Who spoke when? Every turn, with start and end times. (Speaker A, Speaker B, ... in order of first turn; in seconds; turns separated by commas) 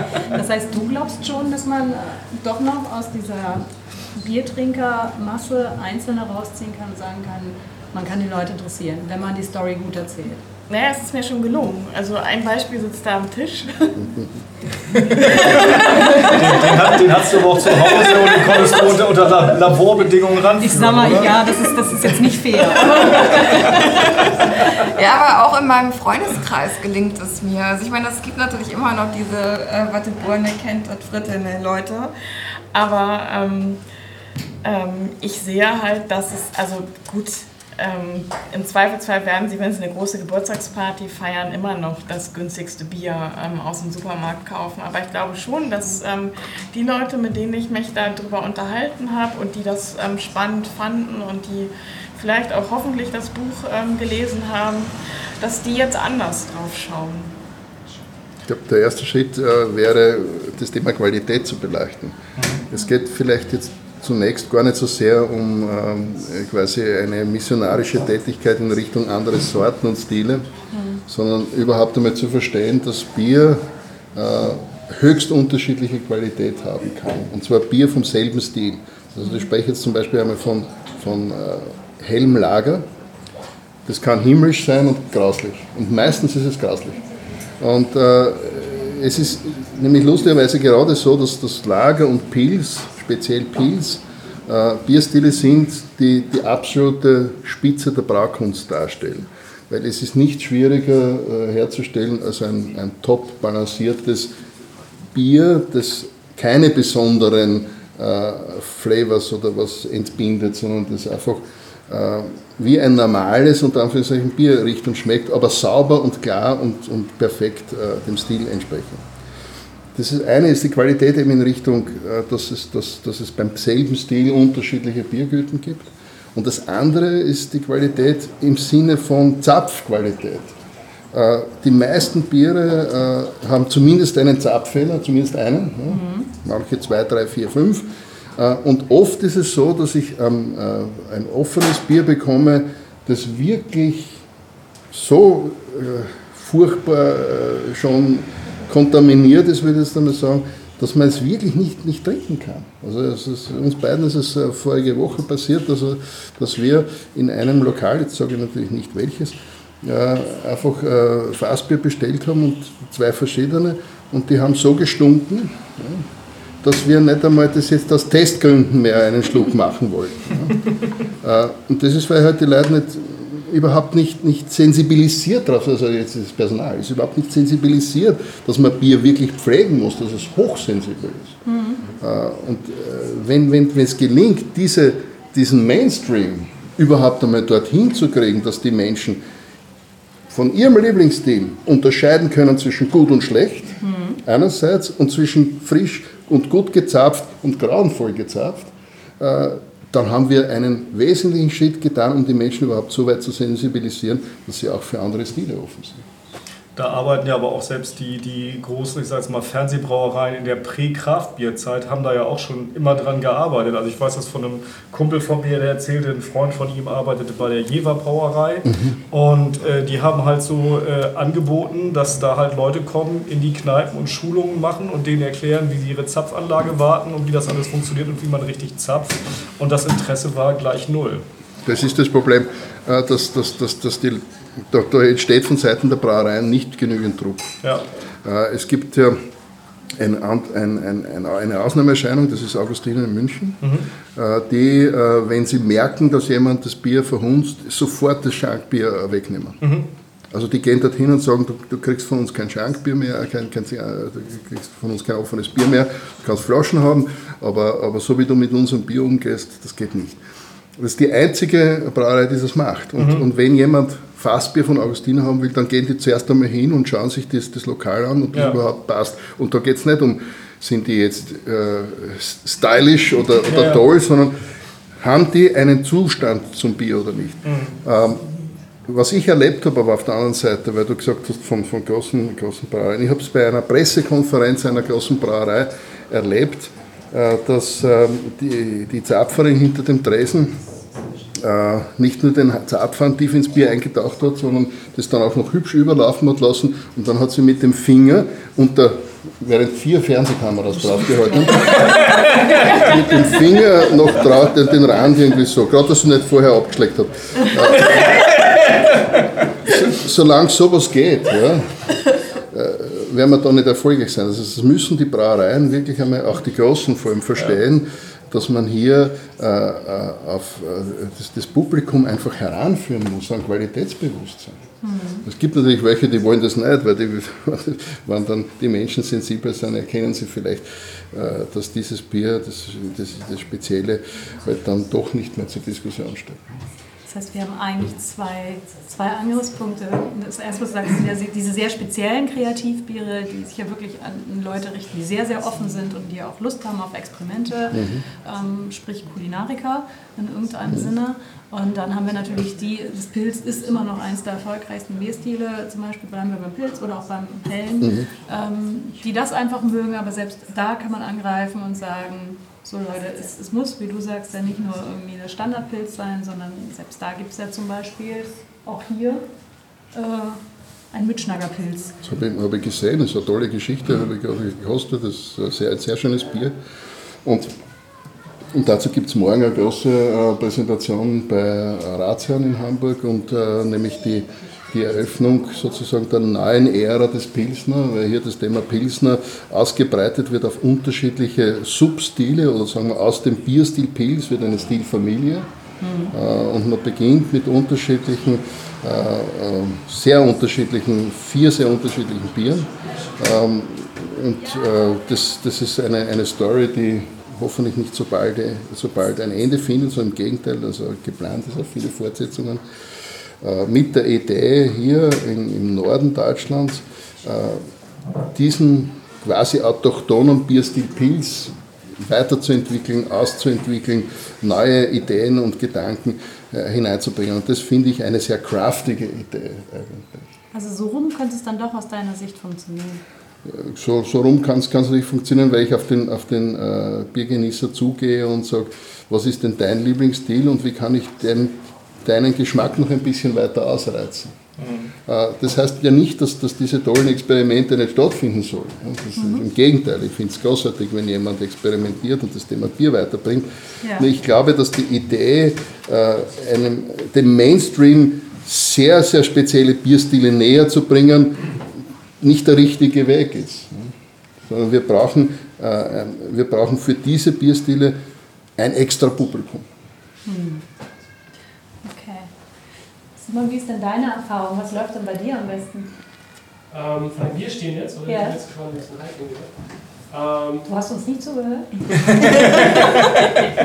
Speaker A: 0.3-10.4, Speaker B: 10.7-14.0, Speaker B: 15.3-16.7, Speaker C: 15.3-21.5, Speaker A: 20.6-23.4, Speaker D: 24.9-32.1, Speaker B: 32.7-33.8, Speaker B: 34.6-57.3, Speaker E: 58.4-70.5, Speaker C: 62.4-62.6, Speaker E: 71.0-82.9, Speaker E: 83.8-87.0, Speaker E: 87.6-104.3, Speaker E: 105.1-119.0, Speaker E: 119.9-130.5, Speaker E: 131.1-144.2, Speaker A: 135.9-136.3, Speaker E: 144.9-166.1, Speaker E: 166.6-170.7, Speaker E: 171.2-181.4, Speaker A: 181.4-181.8, Speaker E: 182.0-189.2, Speaker E: 190.3-206.0, Speaker A: 193.8-194.2, Speaker C: 206.8-231.2, Speaker E: 218.6-218.9, Speaker E: 231.6-237.6, Speaker E: 238.2-239.2, Speaker E: 239.9-249.7, Speaker C: 249.6-249.9, Speaker E: 250.3-260.2, Speaker E: 260.8-274.4, Speaker C: 273.5-273.8, Speaker E: 275.0-278.2, Speaker C: 277.4-277.8, Speaker E: 278.8-290.6, Speaker E: 291.3-302.1, Speaker A: 301.2-302.1, Speaker E: 302.7-308.4, Speaker C: 308.1-308.6, Speaker E: 309.6-311.8, Speaker E: 312.4-324.6, Speaker A: 324.8-325.2, Speaker E: 325.2-336.6, Speaker A: 337.1-369.2, Speaker E: 347.7-348.0, Speaker E: 357.8-358.1, Speaker A: 369.9-371.9, Speaker E: 372.0-376.6, Speaker E: 377.2-377.5, Speaker E: 378.5-395.5, Speaker A: 395.8-396.1, Speaker E: 396.1-412.7, Speaker F: 402.8-403.1, Speaker E: 413.4-417.7, Speaker E: 418.3-430.3, Speaker A: 430.5-433.0, Speaker E: 433.4-444.4, Speaker C: 444.6-444.9, Speaker E: 445.1-461.6, Speaker A: 449.2-449.4, Speaker A: 453.8-454.1, Speaker E: 462.2-463.9, Speaker E: 464.4-467.9, Speaker E: 468.6-469.6, Speaker A: 470.2-470.6, Speaker A: 471.8-472.3, Speaker A: 473.2-475.9, Speaker F: 476.7-480.7, Speaker A: 478.1-478.4, Speaker A: 480.6-482.7